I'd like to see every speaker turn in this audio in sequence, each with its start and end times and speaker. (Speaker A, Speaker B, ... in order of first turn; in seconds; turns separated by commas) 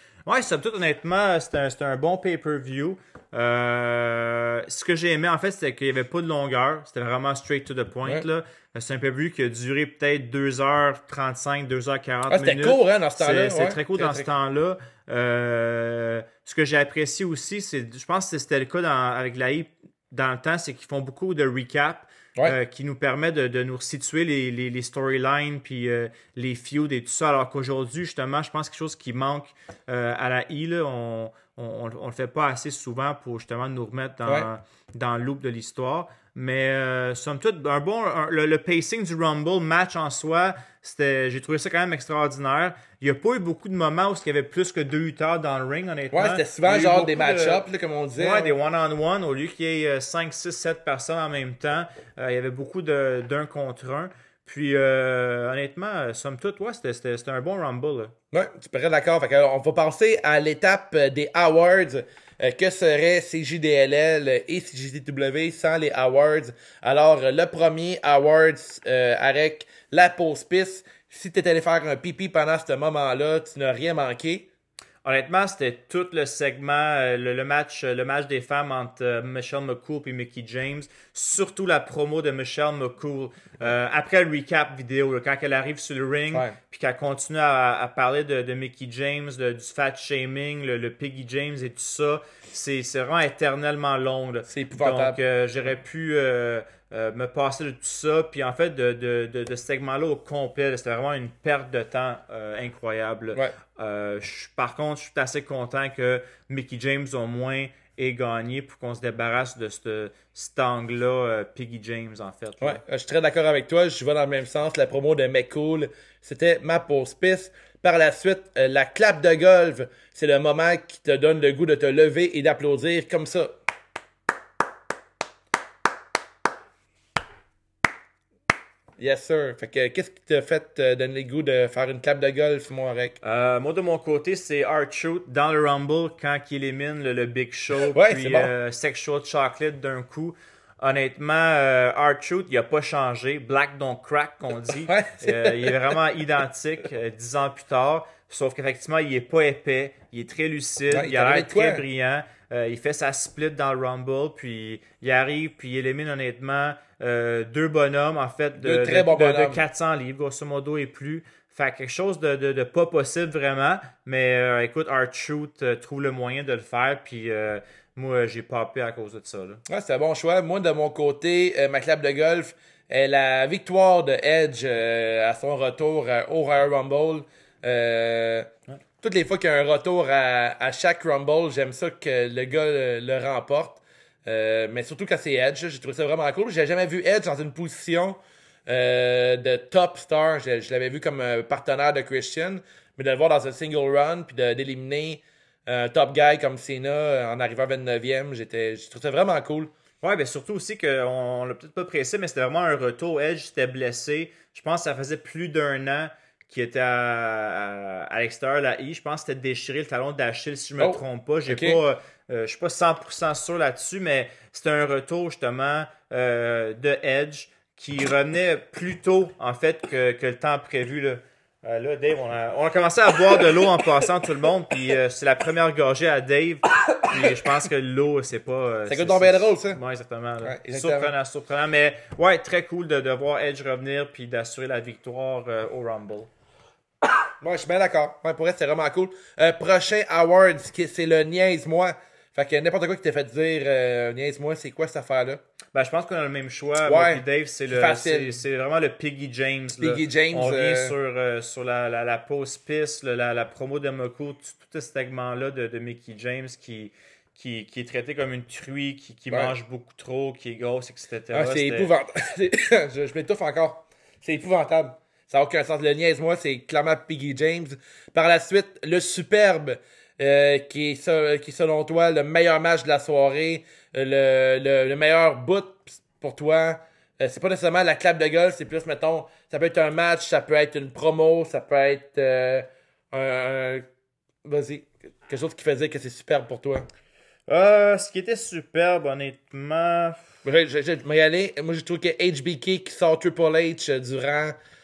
Speaker A: 0.2-47.6, Speaker B: 12.3-14.3, Speaker B: 46.1-48.5, Speaker A: 48.2-58.1, Speaker B: 58.3-74.5, Speaker A: 75.0-112.8, Speaker B: 86.3-86.6, Speaker B: 94.5-95.2, Speaker B: 112.6-123.5, Speaker B: 129.0-133.2, Speaker A: 133.2-169.6, Speaker B: 137.9-138.5, Speaker B: 144.9-145.8, Speaker B: 150.9-151.8, Speaker B: 158.6-159.6, Speaker B: 169.7-178.5, Speaker B: 179.0-199.7, Speaker A: 200.0-236.3, Speaker B: 210.8-211.8, Speaker B: 228.9-229.8, Speaker B: 230.4-231.1, Speaker B: 237.4-245.4, Speaker A: 245.7-261.9, Speaker B: 246.8-248.4, Speaker B: 249.8-250.9, Speaker B: 261.3-283.8, Speaker B: 284.4-286.8, Speaker A: 287.5-290.2, Speaker B: 290.4-294.6